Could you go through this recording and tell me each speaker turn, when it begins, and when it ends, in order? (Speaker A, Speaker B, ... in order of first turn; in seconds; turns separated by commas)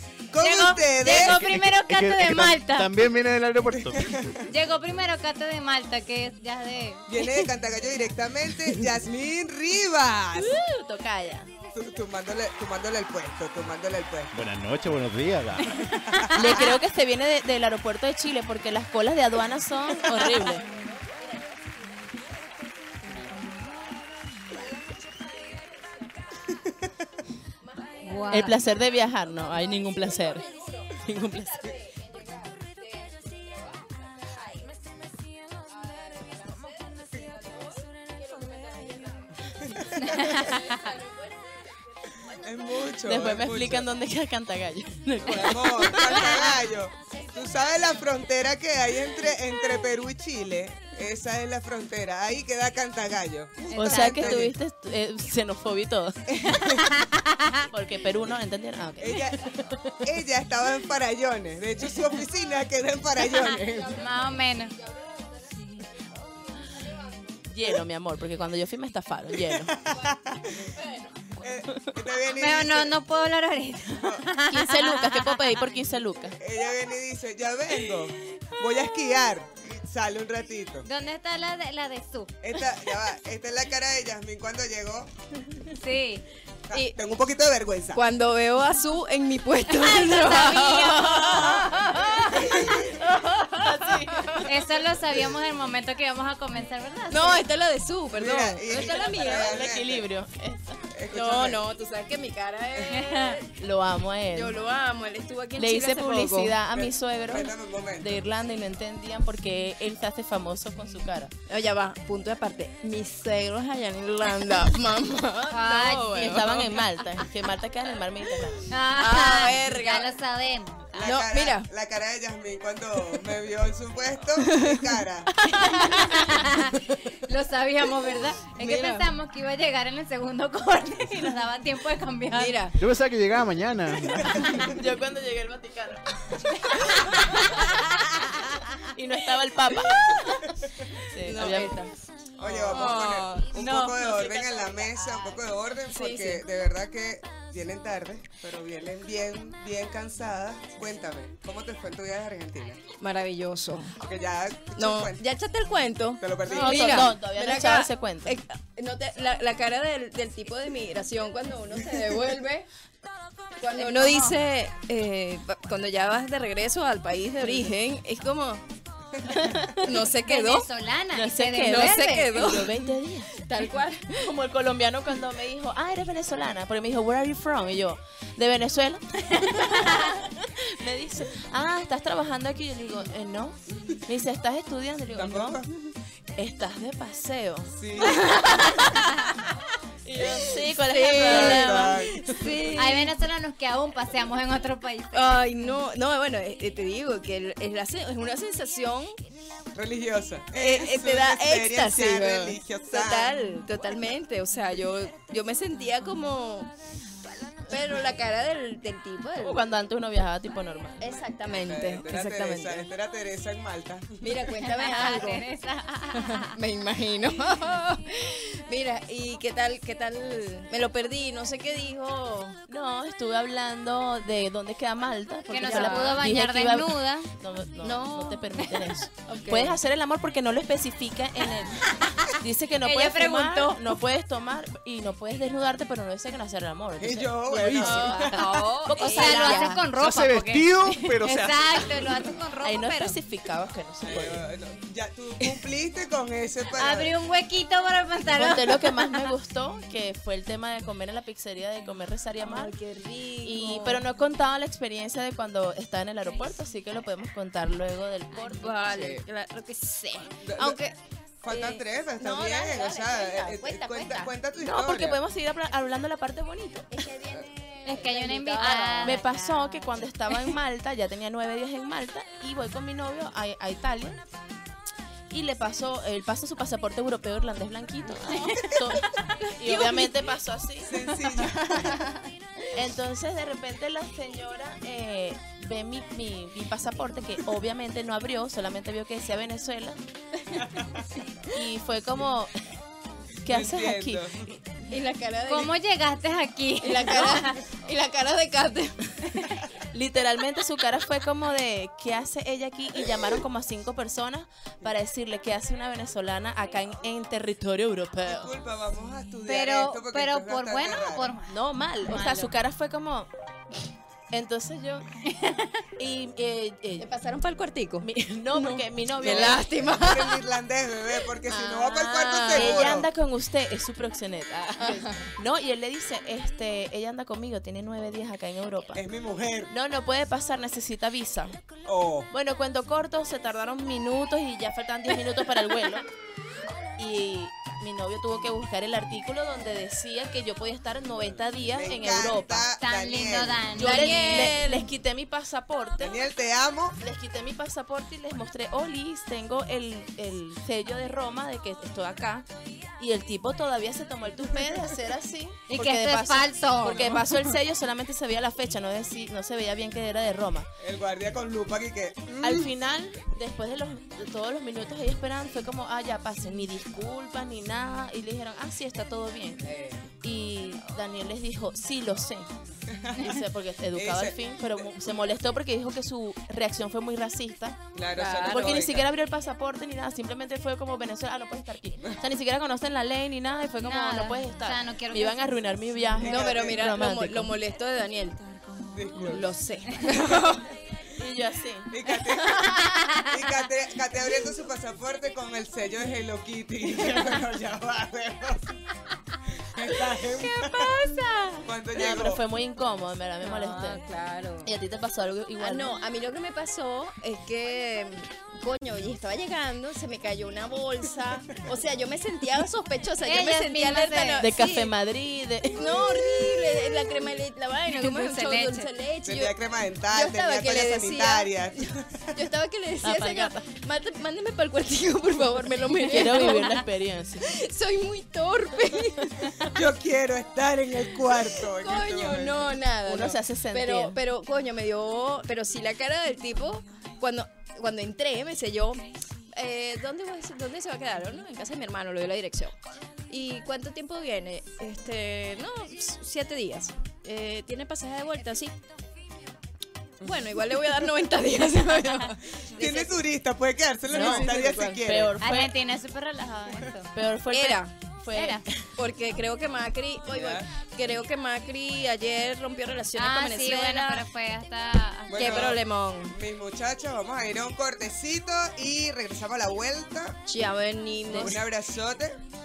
Speaker A: 0.3-1.4, Speaker B: 0.4-2.9, Speaker C: 1.2-4.3, Speaker A: 3.7-4.4, Speaker B: 4.5-7.1, Speaker A: 7.1-10.6, Speaker D: 10.3-11.5, Speaker A: 11.7-14.4, Speaker C: 14.3-15.8, Speaker B: 15.8-16.8, Speaker D: 16.3-20.6, Speaker E: 20.1-23.8, Speaker E: 24.4-26.6, Speaker E: 27.6-28.6, Speaker B: 28.0-28.6, Speaker D: 28.3-30.4, Speaker E: 29.2-34.8, Speaker D: 31.0-31.7, Speaker E: 35.7-42.9, Speaker A: 39.6-40.5, Speaker B: 40.1-40.6, Speaker A: 42.2-43.9, Speaker D: 43.0-46.3, Speaker A: 45.2-54.5, Speaker E: 47.1-48.0, Speaker B: 53.7-54.5, Speaker D: 53.7-56.7, Speaker A: 56.4-56.9, Speaker B: 56.5-57.7, Speaker D: 57.7-60.0, Speaker A: 59.0-59.4, Speaker A: 60.0-64.0, Speaker B: 63.9-64.7, Speaker E: 64.7-67.3, Speaker D: 67.4-69.8, Speaker A: 69.5-70.7, Speaker E: 69.9-71.1, Speaker A: 71.3-73.0, Speaker B: 72.3-75.6, Speaker A: 73.9-74.2, Speaker D: 74.5-76.4, Speaker A: 76.4-80.9, Speaker B: 80.8-82.3, Speaker A: 82.4-85.2, Speaker B: 85.7-86.2, Speaker A: 86.7-88.0, Speaker E: 87.9-93.0, Speaker B: 89.8-91.8, Speaker D: 91.3-94.5, Speaker B: 94.4-97.4, Speaker E: 97.1-99.6, Speaker A: 98.1-100.1, Speaker D: 98.9-101.3, Speaker A: 100.9-101.6, Speaker E: 101.1-103.5, Speaker B: 103.0-103.4, Speaker D: 103.5-104.6, Speaker E: 104.3-106.6, Speaker D: 105.6-111.3, Speaker A: 106.7-108.2, Speaker E: 111.5-117.3, Speaker B: 115.5-116.3, Speaker D: 116.2-118.6, Speaker B: 118.7-121.0, Speaker E: 119.0-120.1, Speaker A: 120.9-125.3, Speaker E: 121.0-121.7, Speaker E: 124.4-126.6, Speaker B: 125.6-132.6, Speaker E: 128.4-129.1, Speaker E: 132.3-132.7, Speaker C: 132.8-134.5, Speaker D: 134.4-136.7, Speaker B: 136.6-137.8, Speaker D: 138.9-141.9, Speaker E: 141.2-141.8, Speaker A: 142.4-152.8, Speaker E: 142.4-144.2, Speaker E: 145.9-146.4, Speaker E: 153.0-154.0, Speaker A: 154.0-155.2, Speaker E: 154.8-162.7, Speaker A: 156.2-157.1, Speaker D: 156.5-158.3, Speaker E: 163.6-168.6, Speaker B: 163.7-164.4, Speaker D: 169.3-169.8, Speaker E: 169.5-170.7, Speaker B: 170.2-172.4, Speaker D: 171.1-173.4, Speaker E: 171.6-174.3, Speaker D: 174.1-185.6, Speaker B: 179.3-180.2, Speaker A: 185.1-185.7, Speaker D: 186.4-187.8, Speaker A: 187.8-188.3, Speaker E: 188.0-189.2, Speaker D: 190.0-192.0, Speaker E: 190.2-193.1, Speaker A: 191.2-192.3, Speaker B: 192.6-195.3, Speaker E: 195.1-199.2, Speaker A: 199.7-203.3, Speaker E: 200.6-206.7, Speaker E: 207.7-209.6, Speaker D: 209.4-211.2, Speaker E: 211.0-212.8, Speaker A: 211.6-214.4, Speaker E: 214.2-215.4, Speaker B: 214.6-216.6, Speaker E: 216.2-222.6, Speaker D: 222.7-239.7, Speaker B: 225.5-227.3, Speaker E: 225.6-226.2, Speaker E: 227.8-228.6, Speaker E: 229.3-229.8, Speaker B: 231.9-234.0, Speaker A: 237.0-238.6, Speaker E: 237.7-239.8, Speaker B: 238.3-243.2, Speaker C: 239.9-241.9, Speaker D: 242.6-244.4, Speaker A: 244.0-247.1, Speaker B: 246.7-249.3, Speaker D: 248.3-252.7, Speaker E: 252.4-254.0, Speaker D: 253.4-258.9, Speaker E: 258.5-260.9, Speaker A: 258.9-259.2, Speaker A: 260.4-260.8, Speaker A: 261.4-265.2, Speaker E: 261.5-264.3, Speaker D: 264.6-266.9, Speaker E: 266.9-269.2, Speaker B: 267.9-270.0, Speaker D: 269.0-274.2, Speaker D: 275.3-282.0, Speaker B: 278.4-278.7, Speaker E: 279.7-280.0, Speaker A: 280.8-282.0, Speaker D: 282.7-290.0, Speaker D: 291.5-292.5, Speaker D: 293.4-294.3, Speaker A: 293.4-294.6, Speaker E: 294.9-295.7, Speaker B: 295.5-297.6, Speaker E: 296.8-299.1, Speaker B: 299.3-299.6, Speaker D: 299.9-308.5, Speaker A: 308.2-311.3, Speaker B: 309.4-312.5, Speaker D: 311.4-313.3, Speaker D: 314.3-315.1, Speaker B: 315.2-315.8, Speaker D: 316.0-317.1, Speaker E: 317.0-320.4, Speaker D: 318.0-319.7, Speaker A: 319.2-323.1, Speaker E: 321.4-323.0, Speaker D: 322.5-329.0, Speaker E: 324.8-325.2, Speaker A: 328.9-329.7, Speaker D: 329.7-331.6, Speaker A: 331.8-332.3, Speaker D: 332.3-336.1, Speaker D: 337.0-342.7, Speaker A: 341.4-343.7, Speaker B: 342.8-344.6, Speaker D: 343.7-346.1, Speaker E: 343.8-344.9, Speaker A: 346.0-347.0, Speaker D: 347.0-352.5, Speaker D: 353.0-360.7, Speaker B: 355.7-357.3, Speaker A: 360.8-362.7, Speaker D: 362.4-369.6, Speaker A: 369.6-370.1, Speaker D: 370.2-372.5, Speaker A: 372.9-373.3, Speaker D: 373.1-377.8, Speaker A: 373.9-374.4, Speaker A: 377.9-379.1, Speaker E: 378.1-378.8, Speaker D: 378.4-387.5, Speaker B: 383.8-385.6, Speaker A: 386.2-386.9, Speaker E: 386.2-388.4, Speaker A: 388.9-389.5, Speaker E: 389.2-390.7, Speaker D: 391.1-391.9, Speaker A: 391.9-398.8, Speaker E: 392.4-392.9, Speaker A: 399.6-401.0, Speaker E: 400.2-401.7, Speaker A: 401.6-402.4, Speaker D: 401.9-404.0, Speaker E: 403.4-404.7, Speaker D: 404.6-405.9, Speaker E: 405.6-414.9, Speaker B: 413.2-414.4, Speaker D: 414.4-416.1, Speaker E: 415.7-419.6, Speaker B: 417.9-418.9, Speaker A: 419.2-422.4, Speaker E: 420.1-426.9, Speaker D: 423.0-423.6, Speaker D: 426.0-427.5, Speaker E: 427.4-429.8, Speaker A: 429.6-432.8, Speaker E: 431.1-442.8, Speaker D: 433.0-434.2, Speaker E: 443.3-448.7, Speaker E: 450.2-453.2, Speaker A: 452.7-455.3, Speaker D: 454.1-455.7, Speaker B: 455.4-457.1, Speaker D: 457.1-458.9, Speaker E: 457.5-457.9, Speaker B: 458.3-458.6, Speaker E: 459.0-464.2, Speaker A: 460.3-460.6, Speaker B: 463.1-465.7, Speaker A: 465.3-470.4, Speaker E: 465.3-466.3, Speaker E: 470.5-471.6, Speaker D: 471.3-471.6, Speaker A: 471.4-472.4